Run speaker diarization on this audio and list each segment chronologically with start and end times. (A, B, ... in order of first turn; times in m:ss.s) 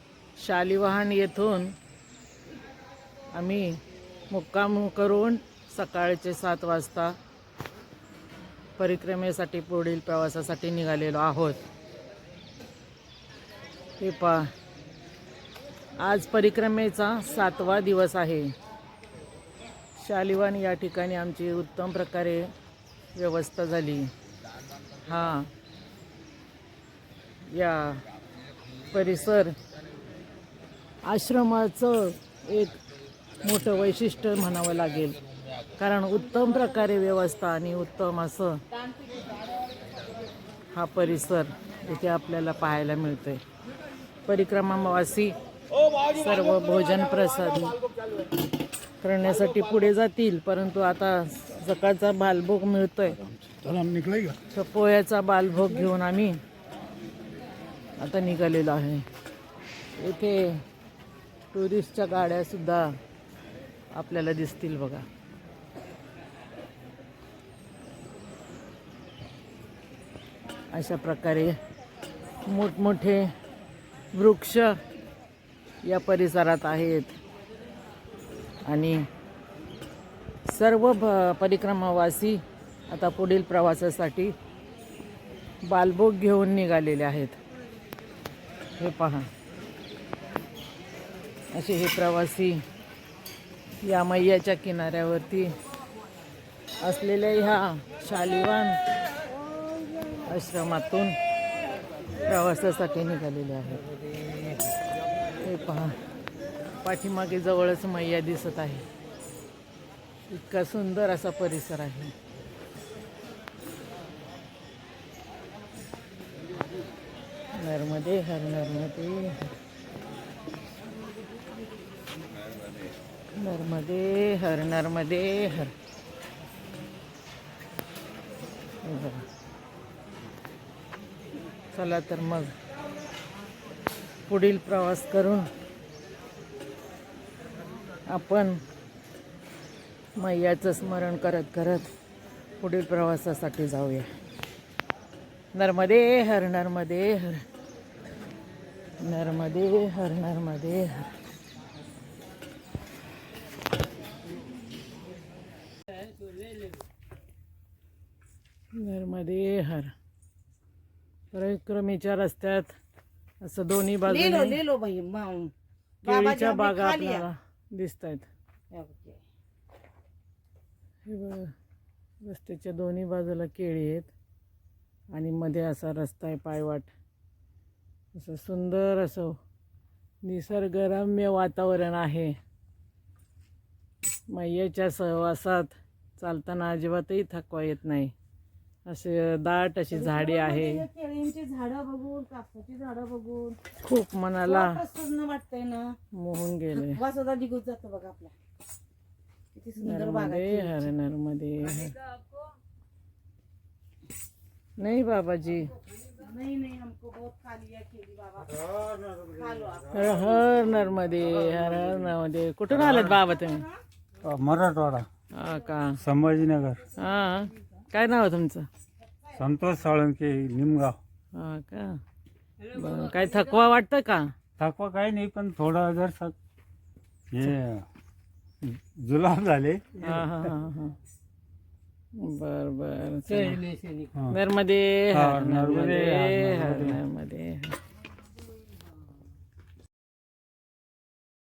0:00.4-0:01.7 A
0:03.3-0:03.7 A
0:04.3-0:07.2 A
0:08.8-0:11.6 A
0:14.0-0:14.5 A
0:16.0-0:18.5 A
0:20.0-0:22.5 A
0:23.1-0:24.1 A
0:25.0-0:25.5 A
0:27.5-0:28.0 A
0:28.9-0:29.5 A
0:31.0-0:32.8 A
0:33.4-0:35.2 A
0:35.8-0:38.6 A
0:40.7-0:43.4 A
0:44.2-0:45.3 A
0:46.1-0:47.8 A
0:49.0-0:53.2 A
0:53.4-0:54.4 B
0:54.5-0:56.4 A
0:58.0-0:59.0 A
1:00.0-1:00.6 A
1:01.5-1:02.9 A
1:03.9-1:05.0 A
1:10.7-1:11.6 A
1:12.4-1:13.3 A
1:14.1-1:14.8 A
1:15.8-1:17.2 A
1:18.6-1:19.0 A
1:20.4-1:24.3 A
1:25.6-1:27.4 A
1:28.8-1:29.3 A
1:31.5-1:32.6 A
1:33.8-1:35.5 A
1:36.8-1:38.8 A
1:40.2-1:41.1 A
1:42.2-1:43.8 A
1:45.4-1:45.9 A
1:46.8-1:48.8 A
1:50.3-1:52.1 A
1:57.6-1:59.5 A
2:03.4-2:05.7 A
2:08.8-2:09.2 A
2:11.7-2:12.5 A
2:14.3-2:15.5 A
2:18.1-2:18.6 A
2:20.2-2:21.9 A
2:22.6-2:24.1 A
2:25.5-2:27.4 A
2:29.0-2:31.1 A
2:38.7-2:39.9 A
2:41.3-2:42.7 A
2:43.4-2:44.6 A
2:44.0-2:45.5 C
2:46.0-2:48.3 A
2:46.0-2:47.3 C
2:48.7-2:49.2 C
2:51.0-2:51.5 A
2:52.2-2:54.1 A
2:55.1-2:56.9 A
2:58.1-2:59.4 A
3:00.2-3:02.3 A
3:04.3-3:08.1 A
3:08.9-3:10.8 A
3:09.9-3:13.6 C
3:13.7-3:14.8 A
3:14.4-3:16.0 C
3:16.1-3:17.0 A
3:16.8-3:18.3 C
3:19.5-3:20.9 C
3:19.8-3:21.9 A
3:24.8-3:25.7 A
3:26.2-3:28.6 C
3:29.2-3:29.9 C
3:29.9-3:33.7 A
3:34.2-3:35.1 B
3:35.3-3:36.0 A
3:36.0-3:36.8 B
3:37.0-3:38.7 A
3:39.3-3:41.0 B
3:41.3-3:42.0 A
3:42.7-3:44.3 A
3:44.6-3:46.3 B
3:47.3-3:47.8 B
3:48.6-3:50.3 B
3:50.0-3:51.0 A
3:52.2-3:53.8 A
3:54.3-3:57.8 A
3:55.1-3:57.0 B